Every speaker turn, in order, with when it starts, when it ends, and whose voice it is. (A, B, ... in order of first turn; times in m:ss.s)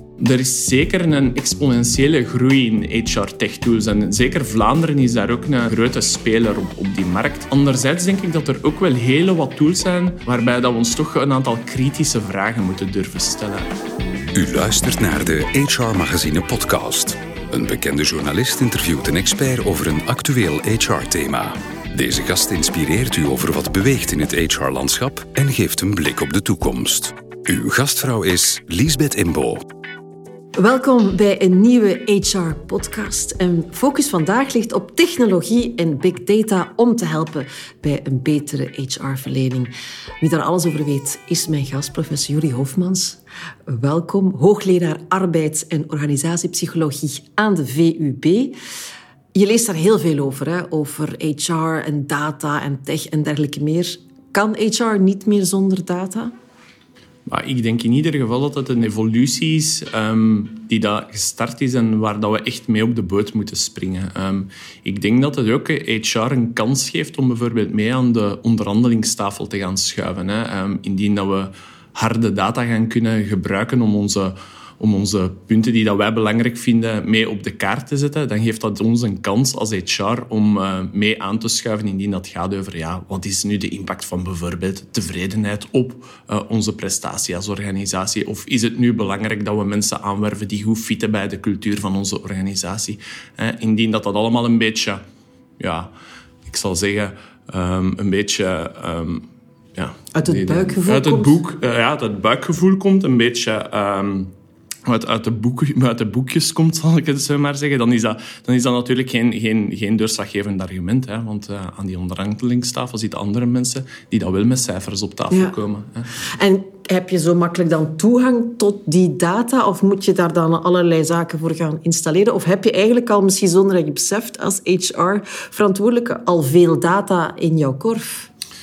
0:00.2-0:13.7 A
0:14.3-0:29.6 B
0:30.6-0:48.6 C
0:49.3-0:56.3 C
0:57.2-1:35.0 A
1:35.6-1:35.9 A
1:36.5-1:44.3 A
1:40.1-1:41.4 C
1:44.8-1:56.1 A
1:55.3-1:55.6 C
1:56.2-2:08.3 C